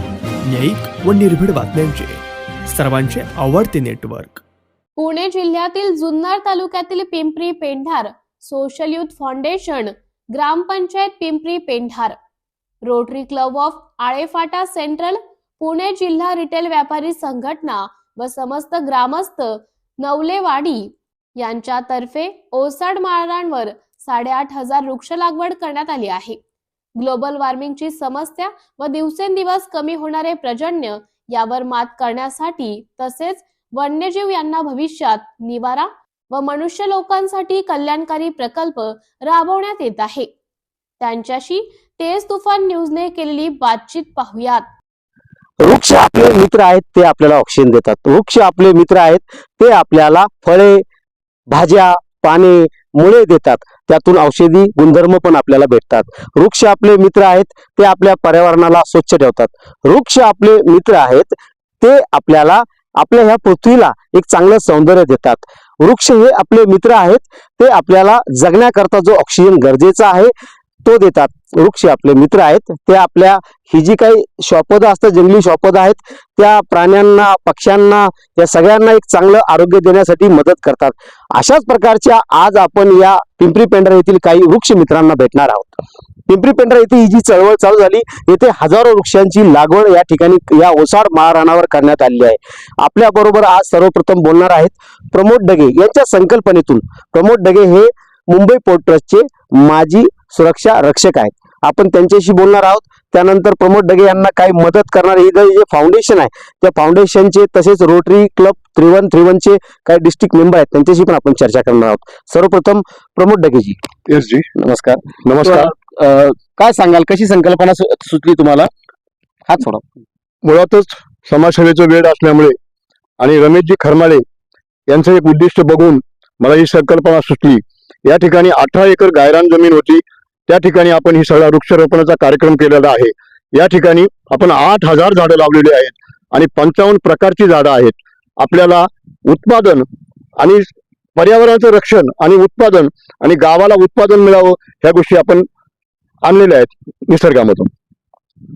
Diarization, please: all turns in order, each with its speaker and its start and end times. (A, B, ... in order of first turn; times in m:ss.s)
0:00.5-0:04.4 A
0:05.0-0:12.2 B
0:12.8-0:26.4 B
0:27.0-0:40.3 B
0:41.0-0:44.7 B
0:45.6-0:50.8 C
0:51.5-1:10.3 C
1:10.8-1:53.8 C
1:54.1-1:54.5 D
1:54.6-1:58.7 C
1:55.2-1:55.7 D
1:59.5-1:59.9 C
2:00.4-2:02.6 D
2:03.2-2:04.2 D
2:04.9-2:19.9 D
2:20.4-2:25.5 D
2:26.2-2:27.7 D